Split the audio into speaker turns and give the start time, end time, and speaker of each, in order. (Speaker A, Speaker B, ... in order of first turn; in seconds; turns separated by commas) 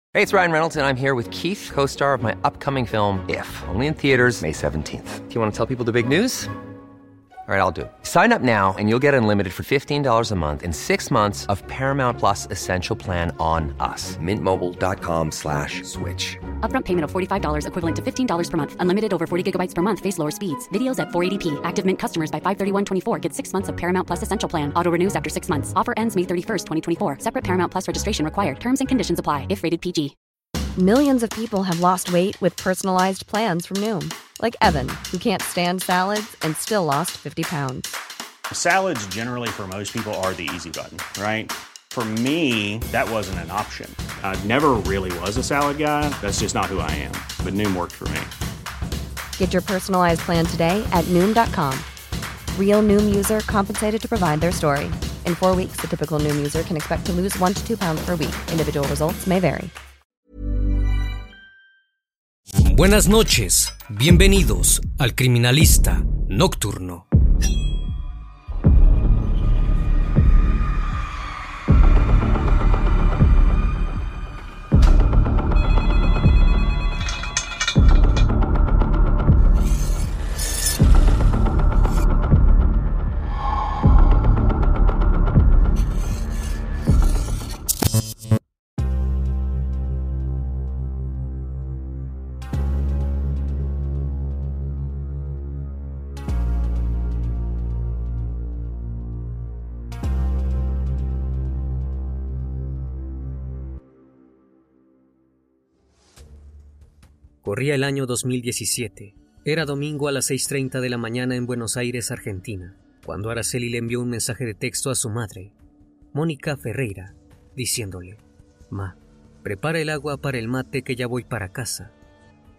Speaker A: 0.1-6.5, Speaker A: 7.5-16.4, Speaker B: 16.6-30.1, Speaker C: 30.8-38.0, Speaker D: 38.5-48.3, Speaker C: 49.4-51.9, Speaker C: 52.5-59.7, Speaker E: 62.6-67.0, Speaker E: 107.4-115.5, Speaker E: 116.1-121.9